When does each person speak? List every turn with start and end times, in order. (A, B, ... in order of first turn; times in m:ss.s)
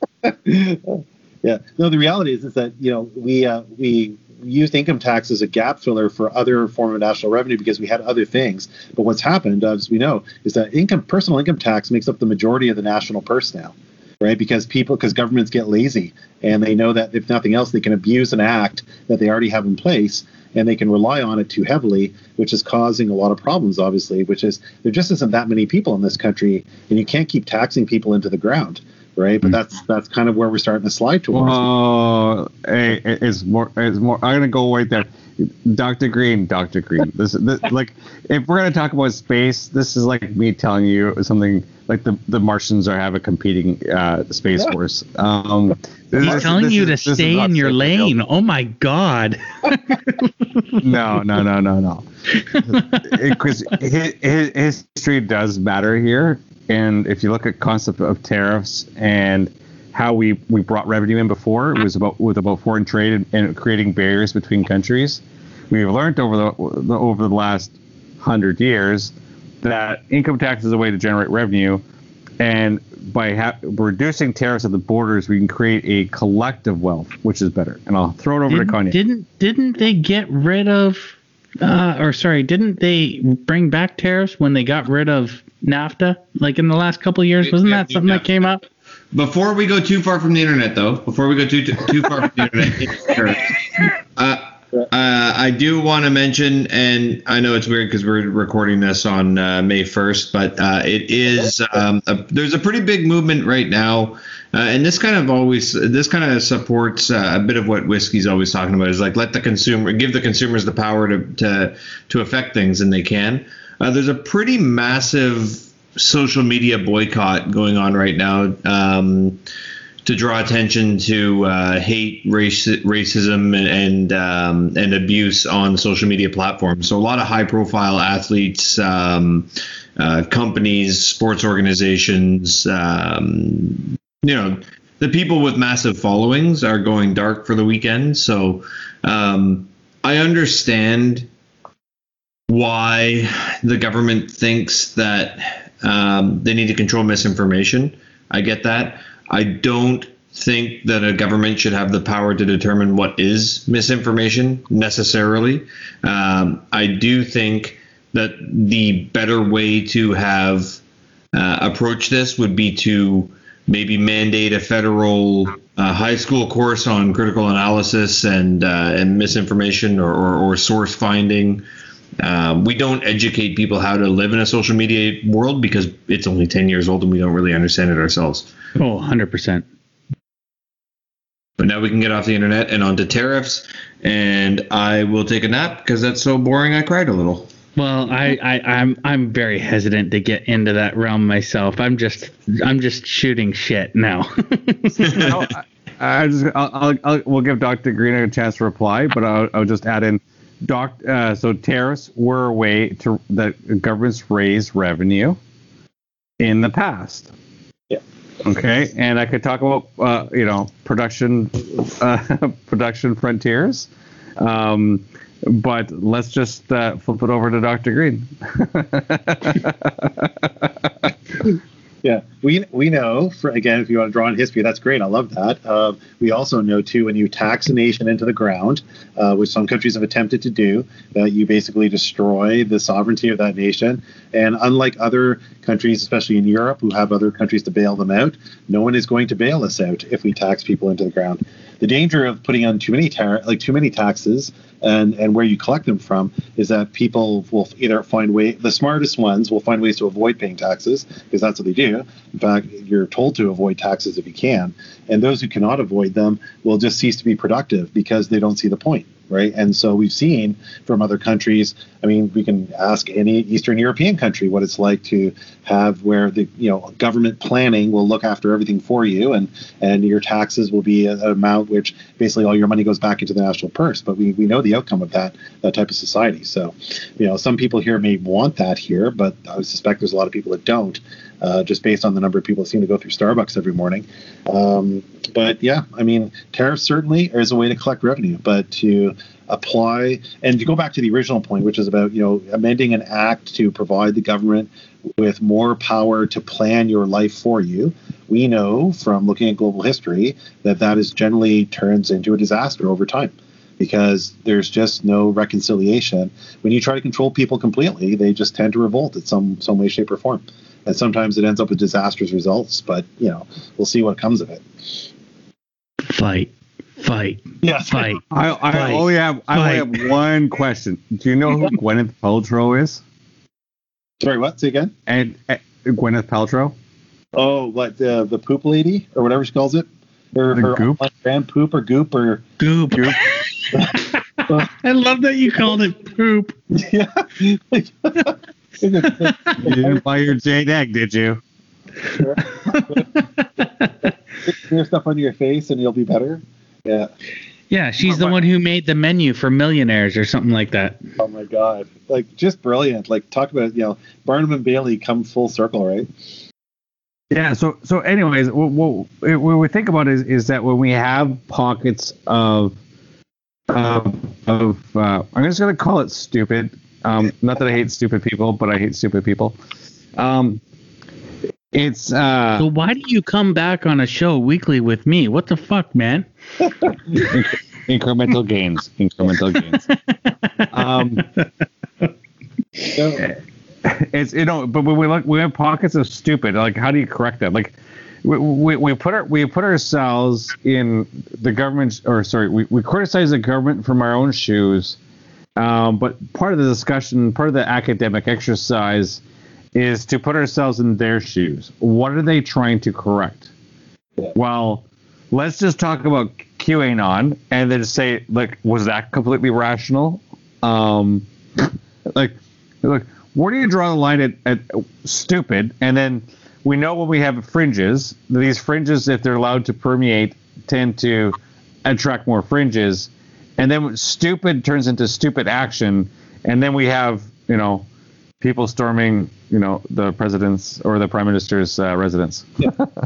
0:00.2-0:31.7 A
0:31.3-0:48.1 B
0:46.2-0:46.5 A
0:46.2-0:50.8 C
0:50.8-0:52.1 B
0:52.4-0:53.4 C
0:52.7-1:11.8 B
1:12.4-1:19.0 B
1:18.5-1:28.6 C
1:27.4-1:28.5 D
1:29.1-1:59.4 D
2:00.0-2:21.3 D
2:22.5-2:40.8 D
2:41.3-2:51.6 D
2:52.2-2:58.5 D
2:58.8-2:59.6 C
3:01.6-3:07.5 D
3:07.8-3:15.2 C
3:15.0-3:15.4 D
3:15.1-3:25.4 B
3:26.4-3:27.3 B
3:28.4-3:41.1 B
3:42.0-5:15.1 A
5:16.1-5:20.0 C
5:17.6-5:18.2 A
5:18.3-5:23.0 B
5:24.2-5:24.9 A
5:25.1-5:26.7 B
5:27.3-5:32.4 A
5:30.5-5:31.0 B
5:32.6-5:36.5 C
5:32.9-5:33.2 B
5:36.7-5:40.0 A
5:39.1-5:39.5 C
5:39.6-5:41.4 B
5:42.2-5:43.1 A
5:42.2-5:43.9 C
5:44.4-5:47.1 A
5:47.7-5:51.0 C
5:48.0-5:48.4 A
5:51.2-5:56.1 A
5:57.3-6:02.7 B
6:03.7-6:09.6 B
6:10.2-6:10.6 B
6:11.7-6:12.6 B
6:12.6-6:16.3 C
6:17.1-6:19.9 B
6:20.2-6:20.9 C
6:20.7-6:21.3 B
6:22.9-6:23.2 A
6:23.2-6:35.0 B
6:35.6-6:39.2 B
6:39.8-6:43.5 B
6:44.3-7:07.9 B
7:08.4-7:12.8 B